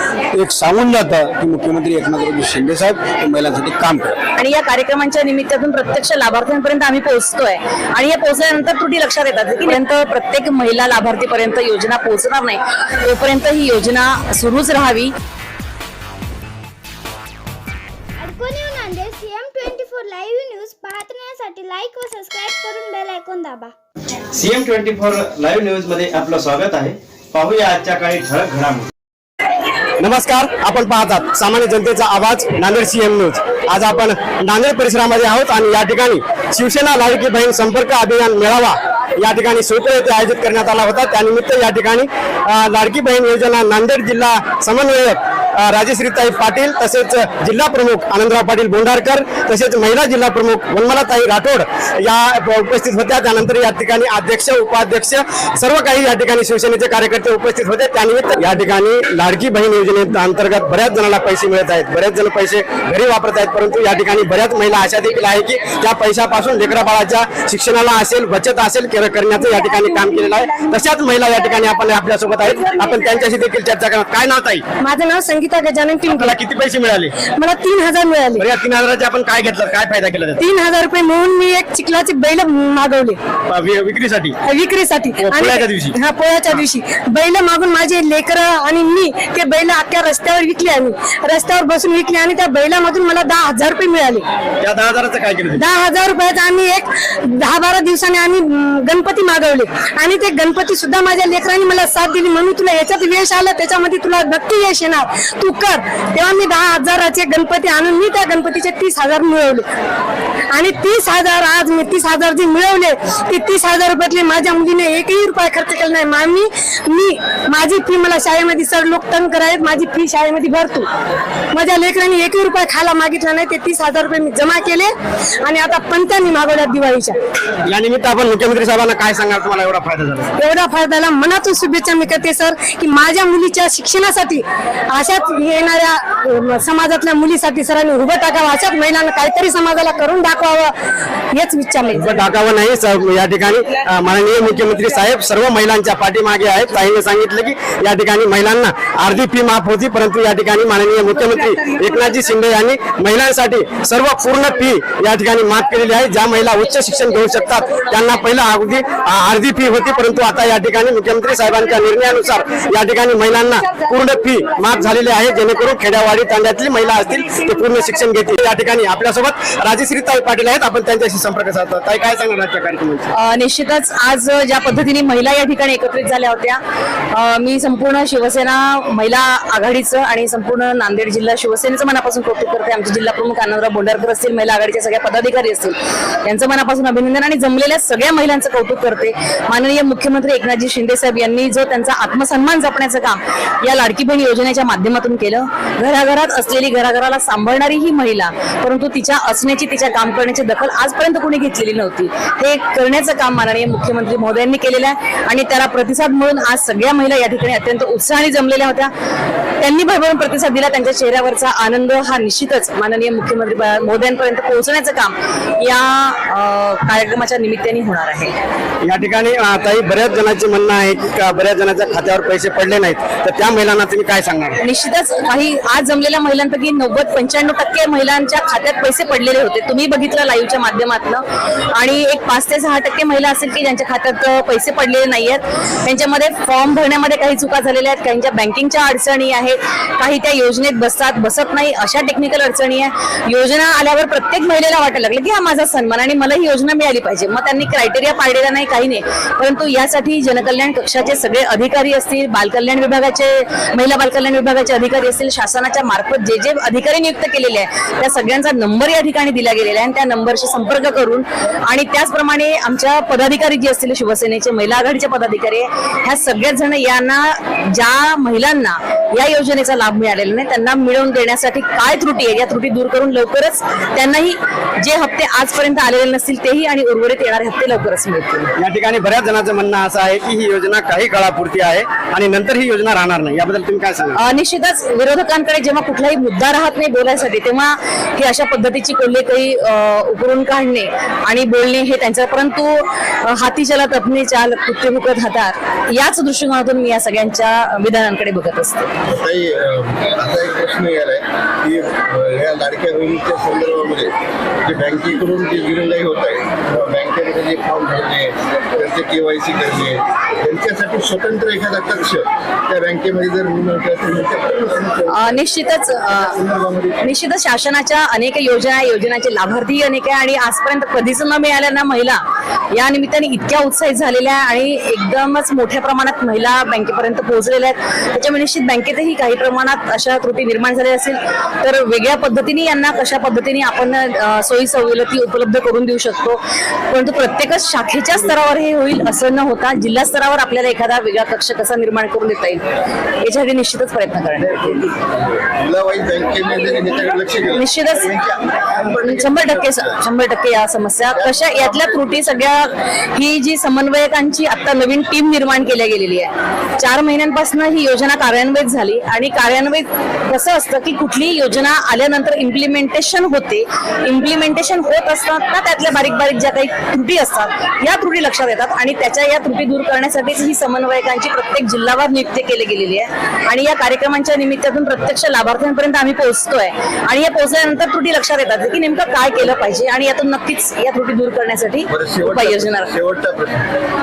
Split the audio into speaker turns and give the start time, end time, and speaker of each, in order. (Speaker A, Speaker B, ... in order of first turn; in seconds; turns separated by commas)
Speaker A: 0.3-4.2, Speaker B: 4.4-15.1, Speaker C: 18.2-23.7, Speaker D: 24.3-28.9, Speaker E: 30.0-74.6, Speaker F: 74.8-76.3, Speaker E: 76.0-77.2, Speaker F: 77.2-78.4, Speaker E: 78.4-80.4, Speaker F: 80.4-83.2, Speaker E: 83.5-84.4, Speaker F: 84.5-94.2, Speaker E: 85.2-86.0, Speaker E: 94.6-95.6, Speaker F: 95.5-109.7, Speaker F: 110.5-120.9, Speaker F: 121.5-127.2, Speaker E: 127.6-130.3, Speaker F: 130.4-140.7, Speaker F: 141.3-142.2, Speaker E: 141.9-173.1, Speaker B: 173.2-176.6, Speaker B: 177.1-208.9, Speaker B: 209.6-218.3, Speaker E: 218.8-224.6, Speaker B: 224.6-278.5, Speaker E: 278.6-284.2, Speaker B: 284.1-298.9, Speaker G: 299.1-304.1, Speaker G: 304.6-315.3, Speaker B: 315.1-316.4, Speaker G: 316.4-316.9, Speaker B: 317.0-322.2, Speaker B: 322.7-342.6, Speaker B: 343.2-344.9, Speaker G: 344.9-348.2, Speaker B: 347.5-382.9, Speaker G: 348.7-350.0, Speaker G: 351.3-351.6, Speaker G: 381.9-383.7